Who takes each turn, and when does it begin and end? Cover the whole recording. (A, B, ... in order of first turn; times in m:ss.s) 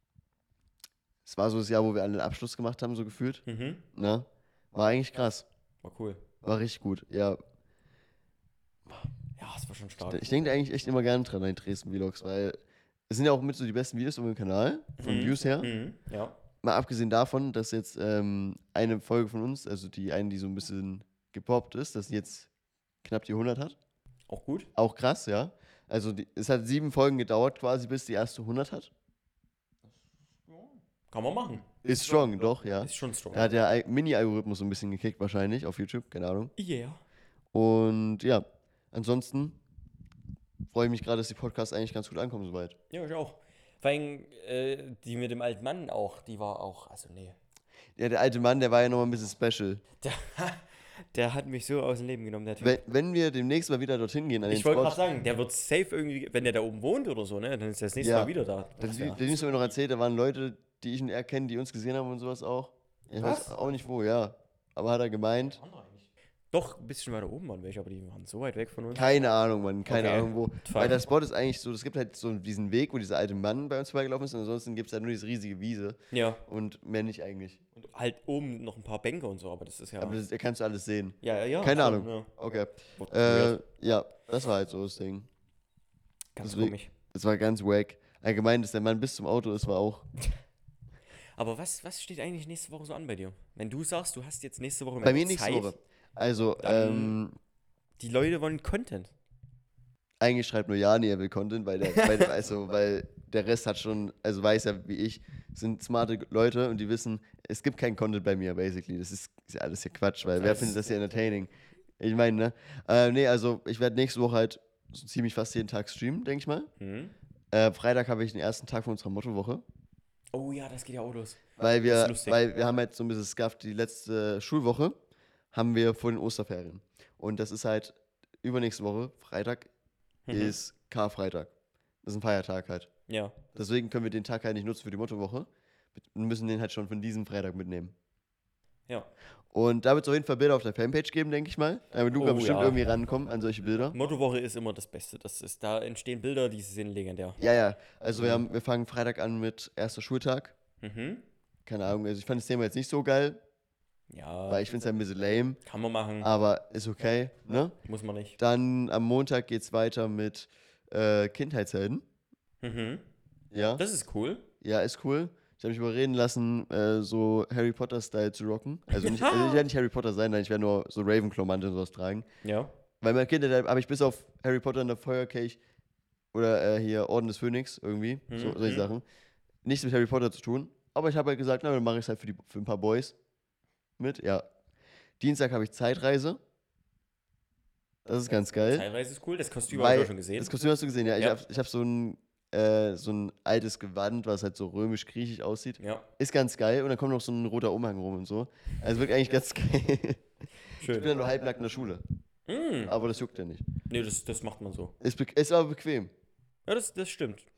0:01.2-0:05.4 A
0:03.4-0:03.8 B
0:05.8-0:06.2 B
0:06.4-0:07.4 A
0:09.4-0:10.3 B
0:10.0-0:12.6 A
0:13.1-0:15.7 A
0:15.0-0:16.4 B
0:16.6-0:22.5 A
0:23.0-0:23.8 A
0:24.3-0:24.7 B
0:24.7-0:28.9 A
0:29.8-0:31.7 B
0:31.8-0:36.5 A
0:32.8-0:33.5 B
0:36.6-0:37.0 B
0:37.5-0:39.6 A
0:40.7-0:42.8 A
0:42.9-0:47.4 B
0:48.0-0:49.8 A
0:50.0-0:52.8 B
0:52.6-0:55.0 A
0:54.5-0:59.7 B
0:58.0-1:05.6 A
1:03.2-1:03.6 B
1:05.5-1:09.1 B
1:08.9-1:17.6 A
1:09.9-1:11.0 B
1:16.1-1:16.4 B
1:17.8-1:20.2 B
1:20.0-1:25.3 A
1:21.2-1:22.3 B
1:23.0-1:23.6 B
1:26.4-1:26.9 B
1:26.4-1:30.0 A
1:31.4-1:35.7 B
1:35.0-1:37.4 A
1:36.6-1:37.2 B
1:38.0-1:39.1 B
1:40.2-1:56.7 A
1:41.9-1:42.3 B
1:50.4-1:50.8 B
1:56.8-1:57.1 B
1:57.5-1:59.6 A
2:00.3-2:02.4 B
2:01.6-2:05.0 A
2:05.5-2:09.7 A
2:10.3-2:10.6 B
2:10.3-2:11.5 A
2:12.0-2:12.9 A
2:13.1-2:13.4 B
2:13.5-2:17.9 A
2:19.5-2:24.0 A
2:22.1-2:22.8 B
2:23.9-2:27.4 B
2:27.4-2:30.6 A
2:28.2-2:28.4 B
2:30.8-2:31.2 B
2:31.6-2:33.4 A
2:34.1-2:34.6 B
2:34.5-2:35.6 A
2:35.6-2:36.3 B
2:36.2-2:37.8 A
2:37.8-2:38.4 B
2:38.4-2:42.0 A
2:42.6-2:43.0 B
2:43.5-2:43.8 A
2:43.8-2:44.4 B
2:44.6-2:52.3 A
2:48.9-2:49.6 B
2:52.4-2:52.7 B
2:53.0-2:55.6 A
2:56.3-2:59.0 A
2:58.3-2:58.9 B
2:59.6-3:03.1 A
3:04.0-3:04.4 A
3:05.2-3:06.4 A
3:08.0-3:08.9 A
3:08.5-3:10.5 B
3:09.7-3:20.2 A
3:15.8-3:16.0 B
3:20.7-3:22.0 A
3:20.8-3:21.1 B
3:22.5-3:22.9 B
3:22.8-3:23.6 A
3:23.9-3:24.9 B
3:25.0-3:26.1 A
3:26.6-3:27.4 B